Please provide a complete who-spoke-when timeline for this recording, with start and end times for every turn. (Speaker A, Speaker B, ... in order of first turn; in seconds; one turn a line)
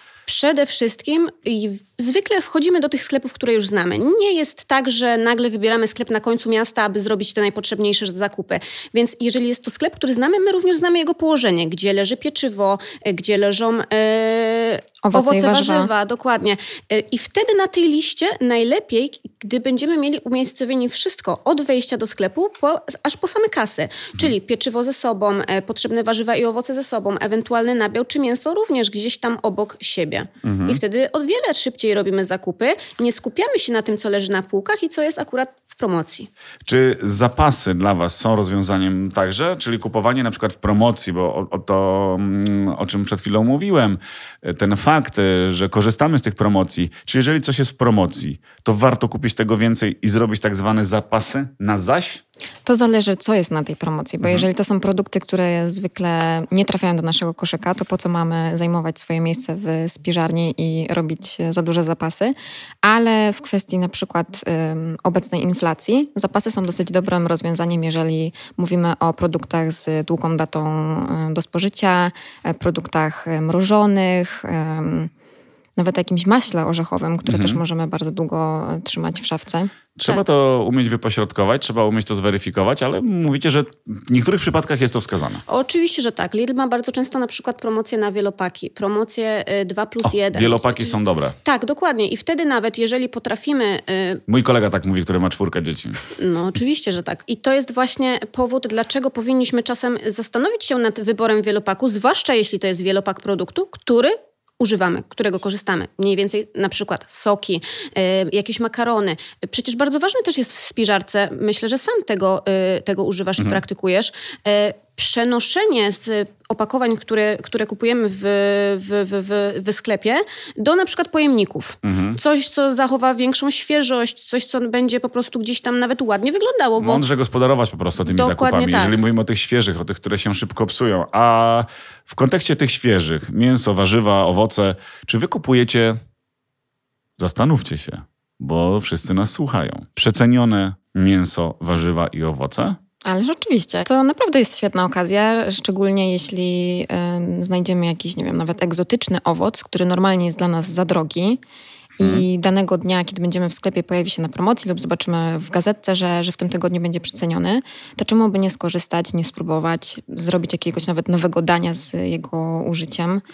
Speaker A: 0.3-36.3
Speaker B: 15.0-15.9
Speaker C: 30.4-30.8
Speaker C: 36.6-52.2
Speaker B: 52.6-75.1
Speaker B: 75.8-80.2
Speaker C: 77.2-77.6
Speaker C: 80.0-85.4
Speaker A: 85.5-94.2
Speaker C: 90.0-91.4
Speaker C: 94.3-96.0
Speaker A: 96.2-127.0
Speaker C: 121.8-122.2
Speaker C: 126.8-136.0
Speaker A: 128.1-129.0
Speaker C: 137.2-142.8
Speaker B: 143.0-151.4
Speaker B: 152.0-163.2
Speaker C: 152.0-152.2